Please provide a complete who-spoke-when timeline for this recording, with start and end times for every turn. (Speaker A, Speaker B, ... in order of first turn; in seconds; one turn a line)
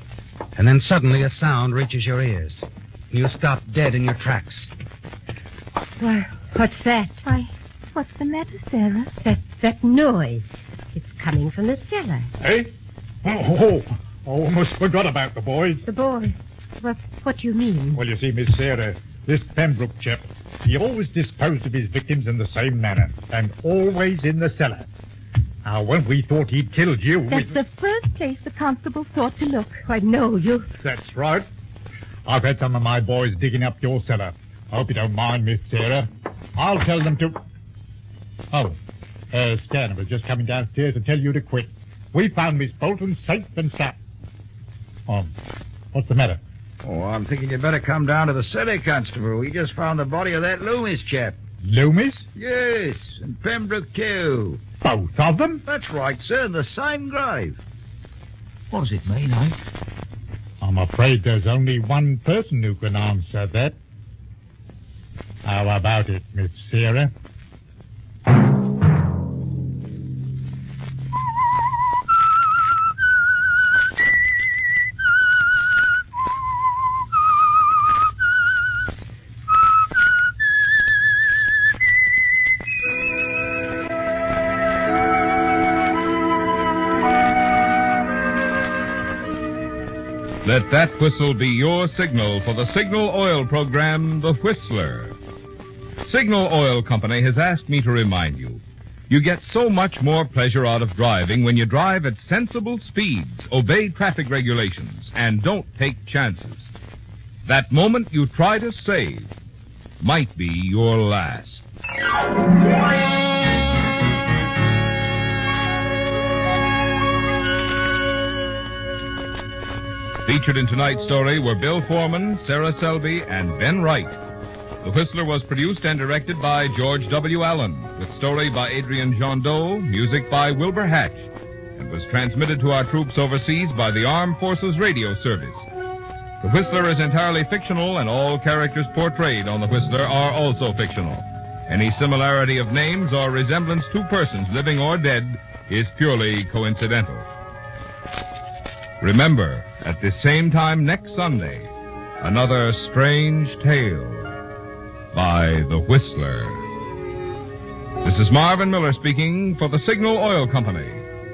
Speaker A: 0.6-4.7
Speaker B: 6.0-7.2
Speaker C: 7.2-9.1
Speaker B: 9.2-12.3
Speaker D: 12.4-12.7
Speaker D: 13.2-15.8
Speaker B: 15.9-18.0
Speaker D: 17.9-24.9
Speaker D: 25.6-27.5
Speaker C: 27.3-29.8
Speaker B: 29.9-30.7
Speaker D: 30.8-31.5
Speaker D: 32.3-37.4
Speaker D: 38.5-38.8
Speaker D: 39.3-44.0
Speaker D: 45.1-45.3
Speaker D: 45.9-46.4
Speaker E: 46.8-51.4
Speaker D: 51.6-52.3
Speaker E: 52.4-54.6
Speaker D: 54.8-55.6
Speaker E: 55.7-57.6
Speaker E: 58.7-59.6
Speaker D: 60.6-63.8
Speaker D: 65.4-67.1
Speaker F: 90.4-95.2
Speaker F: 96.1-106.7
Speaker F: 107.5-109.3
Speaker F: 110.0-111.6
Speaker F: 120.2-124.2
Speaker F: 124.8-135.6
Speaker F: 136.4-147.3
Speaker F: 149.0-151.7
Speaker F: 152.2-154.3
Speaker F: 155.1-156.6
Speaker F: 158.0-161.0